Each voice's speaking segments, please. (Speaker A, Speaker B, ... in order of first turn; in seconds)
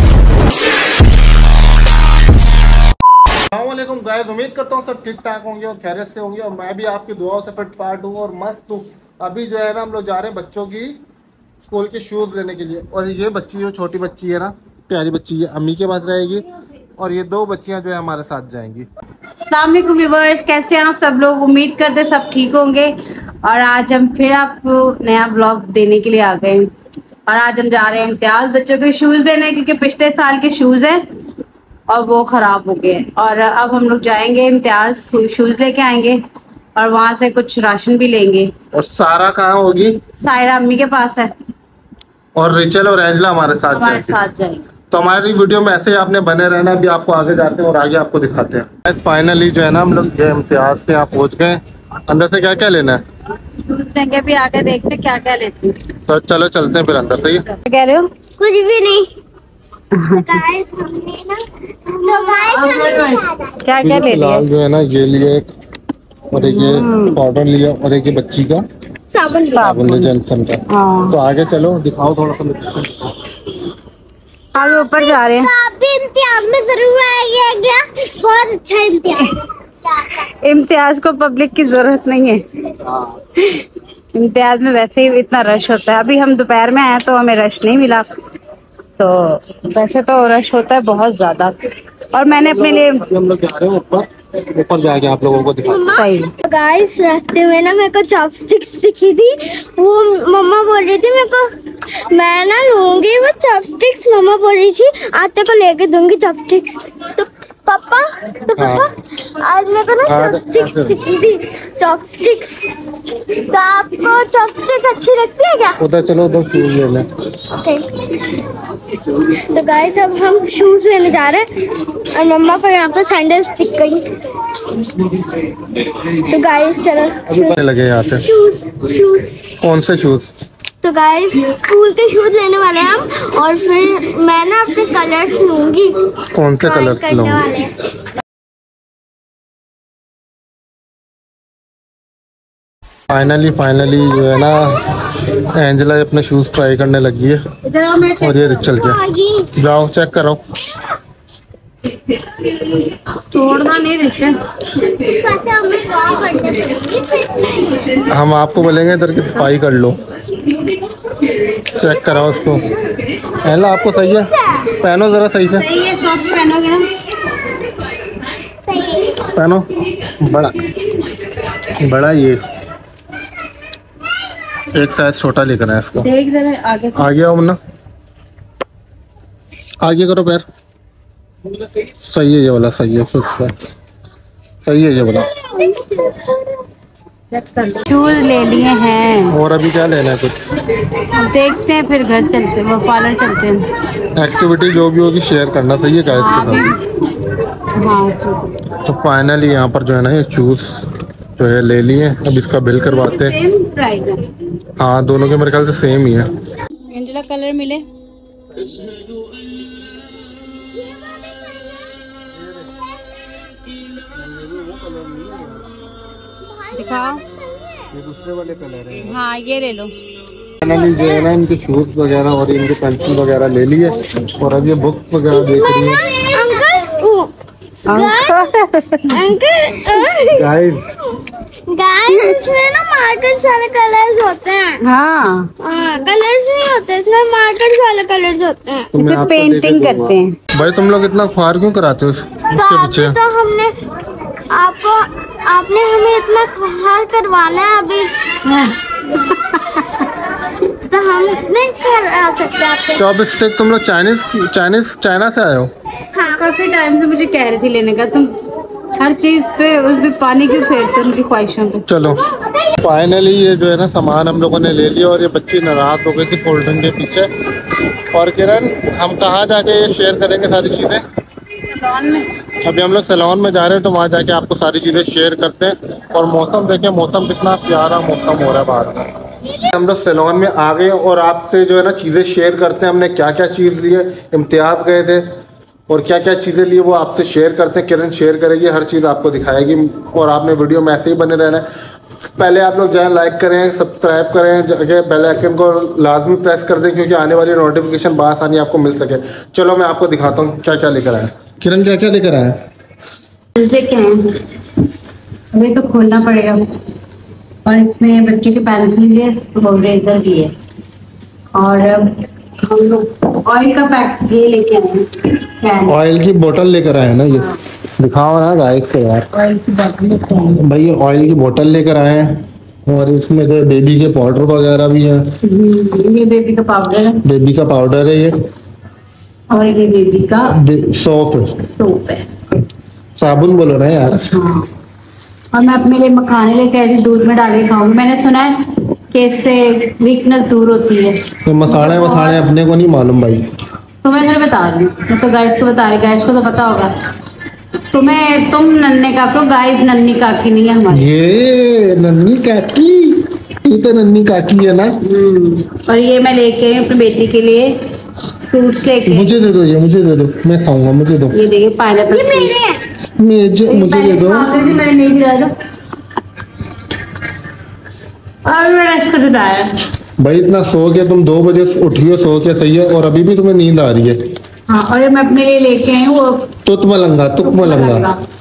Speaker A: 3.5-11.0, 11.6-16.4, 17.0-18.9, 38.7-40.0, 42.3-44.2, 44.9-53.0, 56.1-57.4, 63.8-65.5, 66.3-68.6, 69.5-73.4, 82.8-83.1, 92.2-96.0, 108.5-108.9, 110.0-111.0, 115.8-117.1, 127.3-128.2, 129.6-130.3, 136.3-137.5, 143.1-147.4, 148.1-150.4, 158.1-160.0, 161.7-162.7, 163.4-165.7, 169.2-170.7, 171.7-172.4, 174.7-176.1, 176.9-177.6, 179.8-180.4, 181.7-183.5, 184.6-185.3, 189.3-190.6, 194.1-196.7, 198.7-200.8, 201.4-203.4, 204.8-206.3, 208.5-209.5, 212.3-212.7, 214.1-215.8, 217.9-219.2, 220.6-226.0, 230.3-230.9, 238.9-243.2, 252.9-255.7, 261.9-267.3, 268.1-271.0, 272.6-285.2, 285.9-291.7, 292.2-302.6, 315.9-319.3, 320.5-325.3, 327.2-328.4, 330.4-331.6, 333.2-334.3, 341.4-343.4, 350.9-354.9, 359.1-361.4, 363.2-364.6, 370.2-374.2, 376.6-378.1
Speaker B: 19.4-26.7, 27.3-31.0, 31.9-36.2, 36.8-38.5, 40.1-41.3, 43.7-44.6, 53.5-55.8, 57.6-58.1, 59.9-60.4, 62.3-64.4, 66.4-67.2, 69.5-70.1, 70.7-71.1, 74.5-75.5, 80.2-82.4, 83.3-88.1, 89.0-91.5, 92.1-93.0, 95.8-96.3, 147.6-148.9, 152.4-154.4, 165.5-166.9, 176.0-177.1, 187.3-189.4, 191.0-193.7, 196.1-196.9, 197.7-198.6, 202.8-204.3, 206.9-207.8, 216.7-217.2, 219.0-219.9, 227.9-229.2, 232.1-232.4, 234.8-235.5, 238.9-240.4, 248.4-250.1, 256.2-258.3, 258.9-261.8, 271.6-272.3, 303.5-304.4, 305.5-306.6, 307.6-310.5, 311.5-316.0, 319.3-320.6, 325.4-327.2, 329.5-330.5, 331.6-332.3, 334.2-334.7, 335.5-342.4, 344.0-346.9, 347.9-351.1, 355.0-357.7, 358.4-359.4, 361.3-362.6, 363.6-365.5, 368.4-369.8, 374.7-376.5, 377.4-378.2
Speaker C: 58.4-59.1, 60.1-63.5, 69.1-69.7, 74.6-80.2, 95.6-101.5, 102.1-112.7, 113.4-115.8, 117.4-118.4, 119.1-121.5, 122.1-125.1, 126.2-127.5, 128.2-129.5, 130.8-136.0, 136.6-137.7, 148.8-149.5, 155.1-158.0, 168.7-169.2, 185.3-186.4, 210.8-211.9, 216.4-217.9, 225.3-230.5, 231.7-234.8, 235.6-238.9, 242.5-243.7, 244.5-248.1, 250.9-253.0, 362.1-362.8